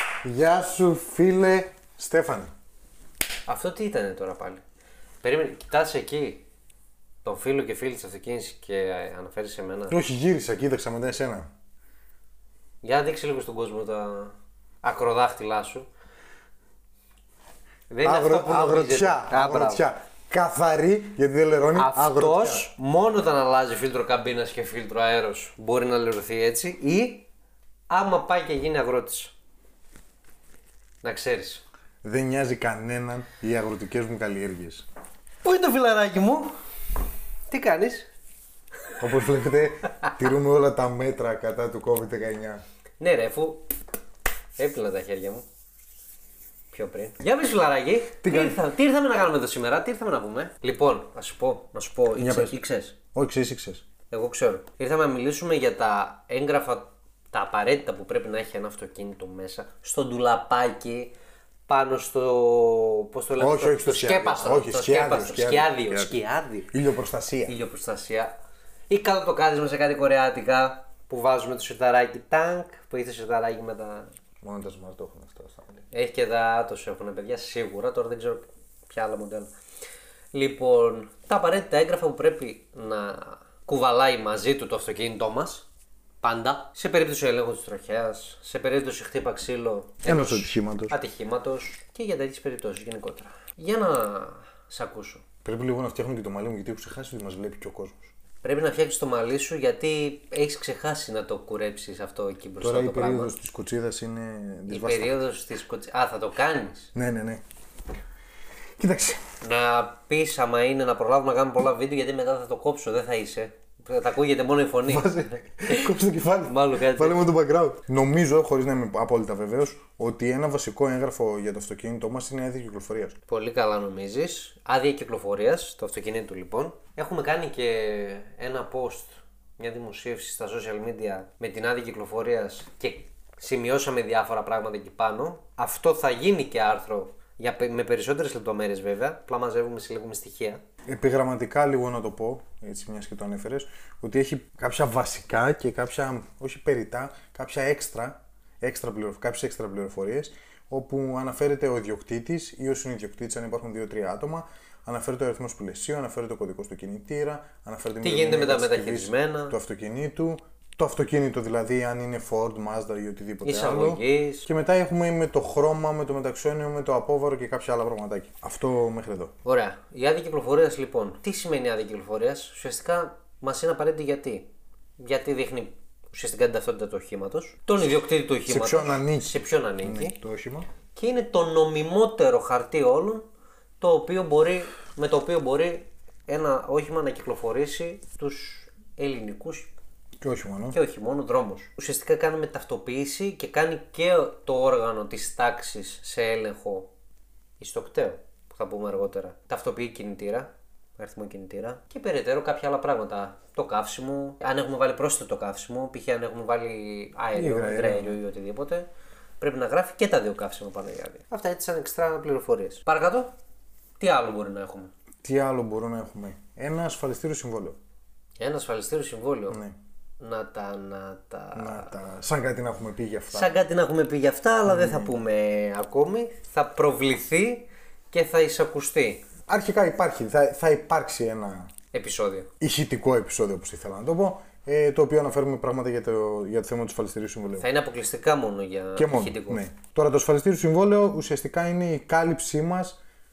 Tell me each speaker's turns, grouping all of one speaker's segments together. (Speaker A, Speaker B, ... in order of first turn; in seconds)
Speaker A: 0.2-2.5, 9.9-11.5, 18.0-22.7, 32.0-34.9, 39.0-42.6, 48.2-48.6, 52.2-52.5, 53.1-53.9, 63.4-66.2, 66.7-67.6, 74.4-75.8, 90.0-91.0, 95.5-98.1, 102.6-105.2, 107.0-107.4, 108.8-109.2, 114.9-123.2, 140.9-169.3, 178.5-180.7, 190.2-190.8, 207.3-208.2, 215.2-217.8, 219.5-219.8, 221.6-223.5, 224.7-225.2, 229.5-231.7, 232.6-237.7, 239.0-243.0
Speaker B: 3.5-4.6, 5.2-6.4, 7.2-10.0, 12.8-15.9, 17.9-19.9, 21.7-27.3, 27.9-29.3, 31.0-31.6, 35.4-36.5, 37.5-38.1, 43.0-43.6, 44.6-45.4, 46.7-53.0, 54.1-61.1, 61.7-66.7, 67.5-68.3, 68.9-74.1, 75.9-79.5, 80.3-85.7, 86.2-95.2, 98.4-103.3, 104.7-106.9, 109.4-117.2, 123.3-140.6, 158.0-159.6, 163.4-164.5, 169.4-174.5, 175.0-180.2, 180.9-183.3, 183.8-189.7, 190.7-196.9, 197.6-208.9, 209.4-213.3, 214.0-214.9, 218.4-219.6, 220.2-222.0, 223.3-229.2, 231.9-232.5, 237.6-239.7